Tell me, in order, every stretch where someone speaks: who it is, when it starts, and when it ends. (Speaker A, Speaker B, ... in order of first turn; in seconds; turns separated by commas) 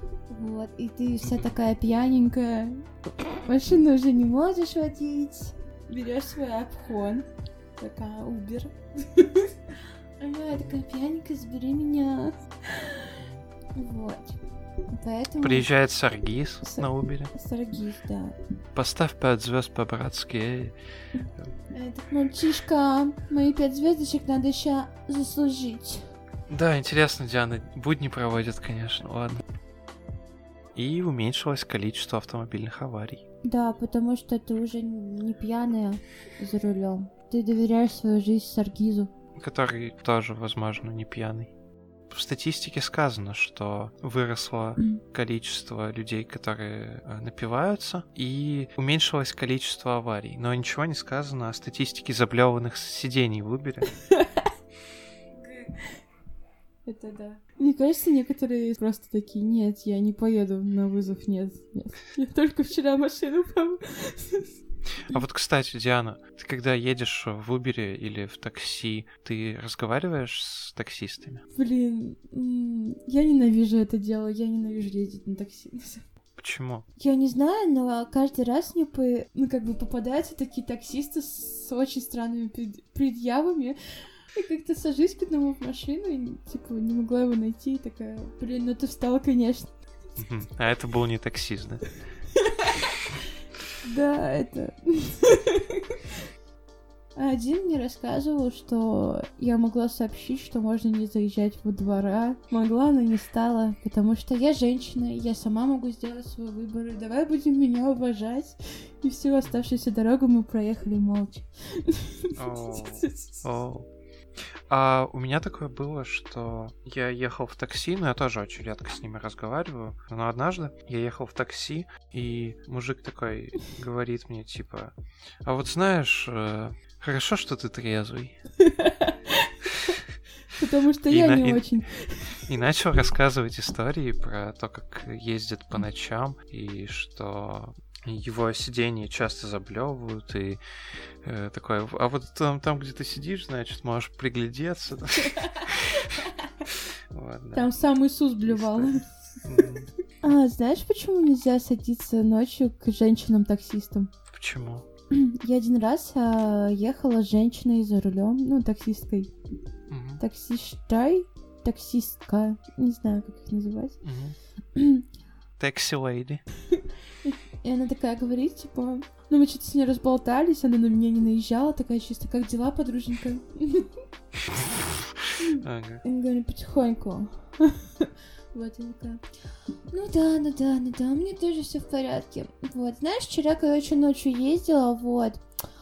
Speaker A: 0.3-9.6, Speaker B: 1.2-1.5, Speaker A: 10.2-13.1, Speaker B: 13.2-13.4, Speaker A: 13.8-14.4, Speaker A: 14.9-15.7, Speaker B: 15.4-17.3, Speaker A: 16.6-18.4, Speaker B: 18.8-20.8, Speaker A: 21.7-26.1, Speaker B: 26.5-29.4, Speaker B: 30.8-33.2, Speaker A: 33.4-39.1, Speaker B: 39.4-41.5, Speaker B: 42.1-53.9, Speaker A: 54.0-54.5, Speaker A: 55.4-55.9, Speaker A: 56.9-64.5, Speaker B: 65.1-71.4, Speaker A: 71.5-76.0, Speaker B: 76.4-76.8, Speaker A: 77.0-83.8, Speaker A: 84.4-89.8, Speaker B: 90.2-91.8, Speaker A: 93.8-96.0, Speaker A: 97.2-113.5, Speaker B: 112.4-113.9, Speaker B: 114.7-128.4, Speaker A: 128.6-130.0, Speaker A: 130.5-132.4, Speaker B: 131.1-131.7, Speaker B: 132.5-140.6, Speaker B: 141.2-146.1, Speaker A: 145.3-146.2, Speaker B: 147.1-147.7, Speaker A: 147.5-149.0, Speaker B: 148.4-149.9, Speaker A: 150.2-154.1, Speaker B: 154.3-154.9, Speaker A: 155.1-159.3, Speaker B: 159.9-160.2, Speaker A: 160.2-164.0, Speaker B: 164.0-164.4, Speaker A: 164.8-165.0, Speaker B: 165.6-166.4, Speaker A: 167.2-173.9, Speaker B: 174.6-175.0, Speaker A: 175.4-179.2, Speaker B: 175.6-176.0, Speaker A: 179.9-185.4